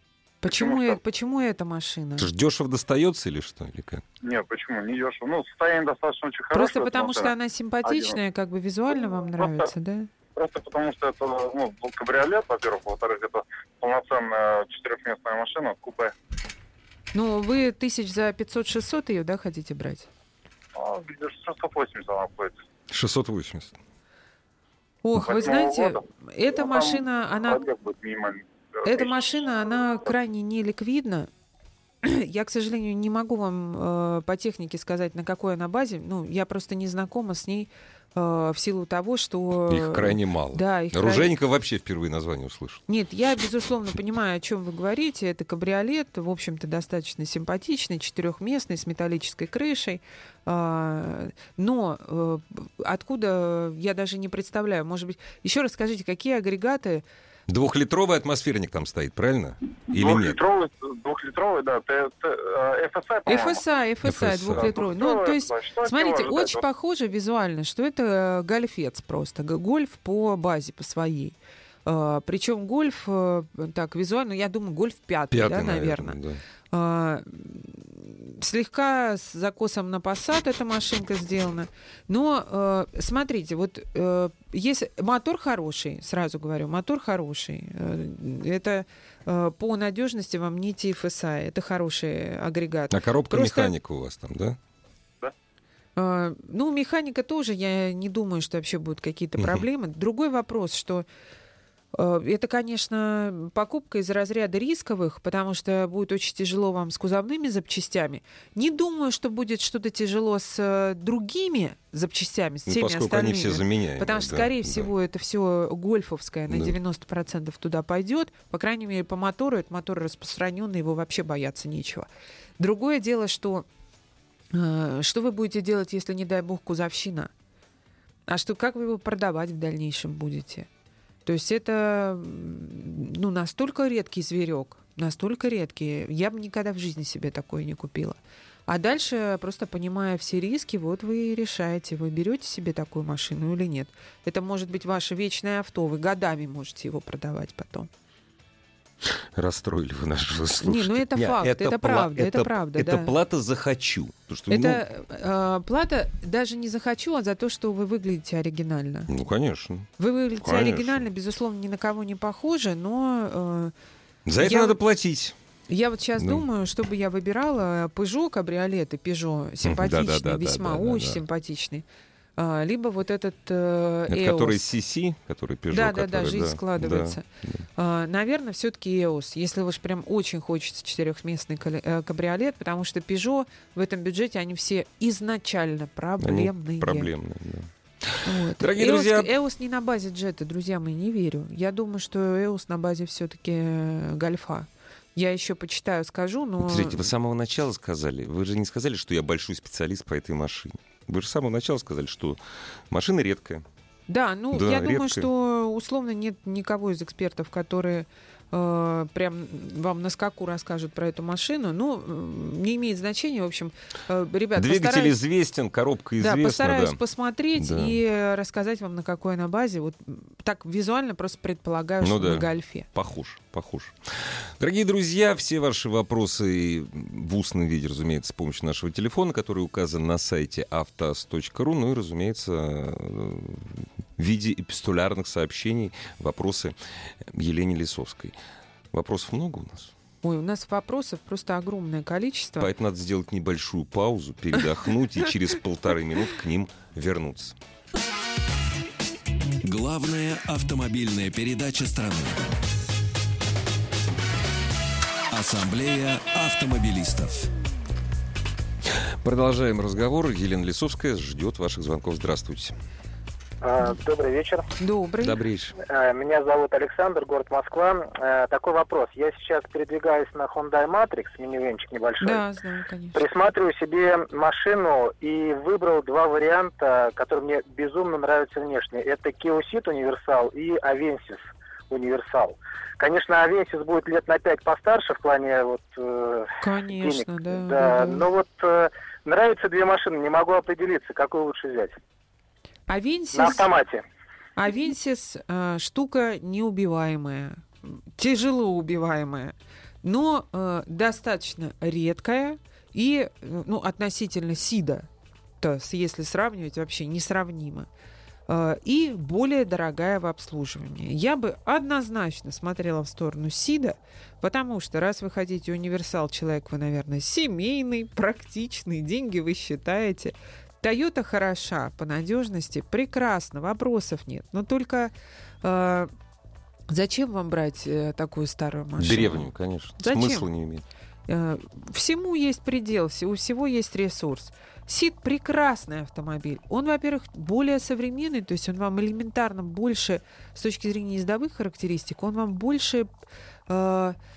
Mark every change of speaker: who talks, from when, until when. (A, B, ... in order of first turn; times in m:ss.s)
0:00.4-0:02.3 A
0:00.4-0:01.0 B
0:02.2-0:04.0 C
0:04.2-0:07.3 B
0:06.5-0:10.1 A
0:07.8-0:08.2 B
0:10.4-0:16.1 B
0:17.1-0:20.1 A
0:20.7-0:22.6 B
0:22.9-0:23.8 C
0:25.0-0:27.6 A
0:25.2-0:29.3 B
0:28.8-0:31.3 A
0:32.0-0:41.3 A
0:39.7-0:42.8 C
0:42.9-0:57.0 A
0:57.5-1:00.4 C
0:59.9-1:03.6 B
1:03.3-1:16.2 A
1:04.0-1:04.7 C
1:04.5-1:06.6 B
1:15.3-1:16.4 C
1:16.7-1:33.7 A
1:32.9-1:34.6 C
1:36.0-1:41.1 A
1:41.9-2:02.1 A
1:52.7-1:54.9 C
1:56.5-1:56.8 C
2:02.6-2:03.7 A
2:04.5-2:07.3 A
2:08.3-2:10.7 A
2:11.3-2:27.9 A
2:29.0-2:34.8 C
2:30.6-2:33.1 A
2:34.5-2:39.1 A
2:39.1-2:39.9 C
2:40.0-2:43.7 A
2:40.4-2:41.1 C
2:44.3-2:45.4 C
2:44.4-2:44.8 A
2:45.7-2:51.9 A
2:46.2-2:46.4 C
2:49.6-2:51.2 C
2:52.4-2:54.7 A
2:54.1-2:57.6 C
2:55.7-2:57.2 A
2:57.8-3:07.1 A
3:06.2-3:09.3 C
3:08.2-3:17.1 A
3:16.6-3:22.4 C
3:22.9-3:23.6 C
3:24.1-3:35.2 A
3:24.5-3:25.3 C
3:34.6-3:37.0 C
3:36.2-3:42.9 A
3:37.6-3:38.0 C
3:42.0-3:58.4 C
3:58.9-3:59.9 C
4:00.2-4:02.7 A
4:02.6-4:07.6 C
4:09.6-4:12.4 D
4:15.3-4:17.5 D
4:18.9-4:22.8 C
4:23.6-4:24.7 E
4:24.8-4:25.4 A
4:25.2-4:25.8 C
4:25.8-4:32.4 E
4:32.2-4:33.2 A
4:33.2-4:52.0 E
4:46.6-4:48.3 A
4:52.9-4:53.7 A
4:53.3-4:54.0 E
4:54.6-5:05.1 A
5:05.6-5:07.9 A
5:08.5-5:26.1 A
5:26.9-5:30.5 A
5:29.0-5:30.8 C
5:31.3-5:43.1 A
5:43.7-5:44.2 A